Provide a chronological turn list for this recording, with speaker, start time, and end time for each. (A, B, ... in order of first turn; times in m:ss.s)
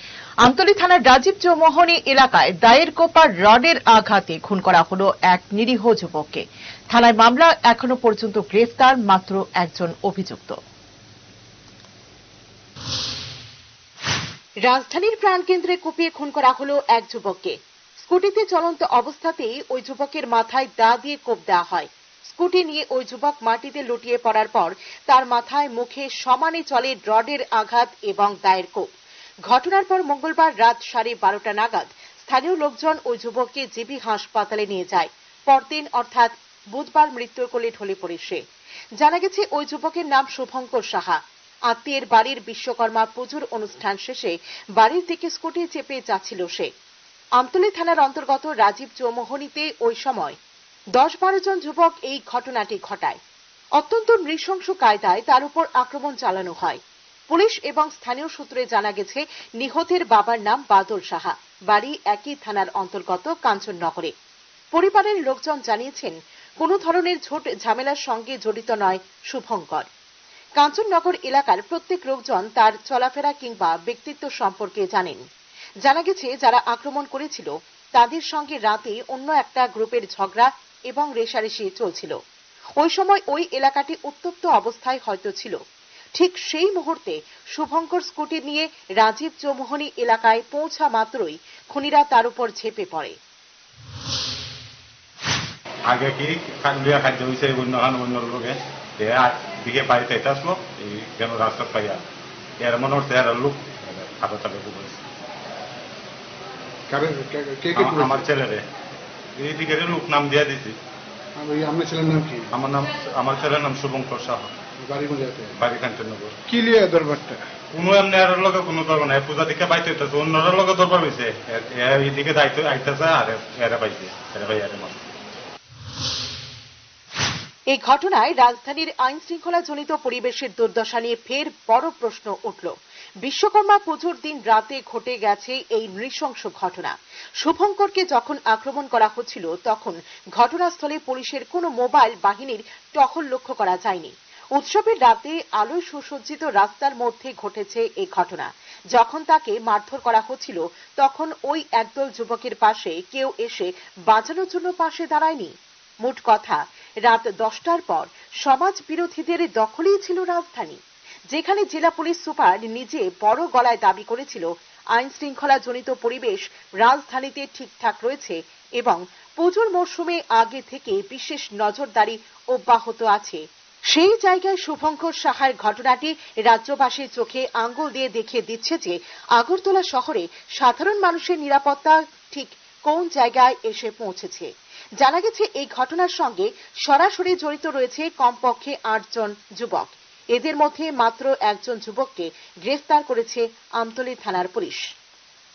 0:00.4-0:10.6 A
0:14.6-0:28.9 A
0:29.5-0:38.4 A
0:39.0-0:41.2 A
0:41.7-0:46.7 A
0:47.4-0:50.4 A
0:50.9-0:53.2 A
0:53.8-1:04.1 A
1:04.7-1:09.9 A
1:10.6-1:15.2 A
1:15.8-1:22.2 A
1:22.8-1:25.6 A
1:26.2-1:33.1 A
1:35.9-1:42.0 B
1:42.6-1:45.0 B
1:46.9-1:48.2 C
1:47.7-1:48.7 B
1:49.4-1:50.8 B
1:51.4-1:52.5 C
1:52.5-1:54.5 B
1:54.8-1:55.6 C
1:55.6-1:56.4 B
1:56.5-1:57.5 C
1:57.7-2:05.1 B
2:07.7-2:40.8 A
2:41.3-3:14.8 A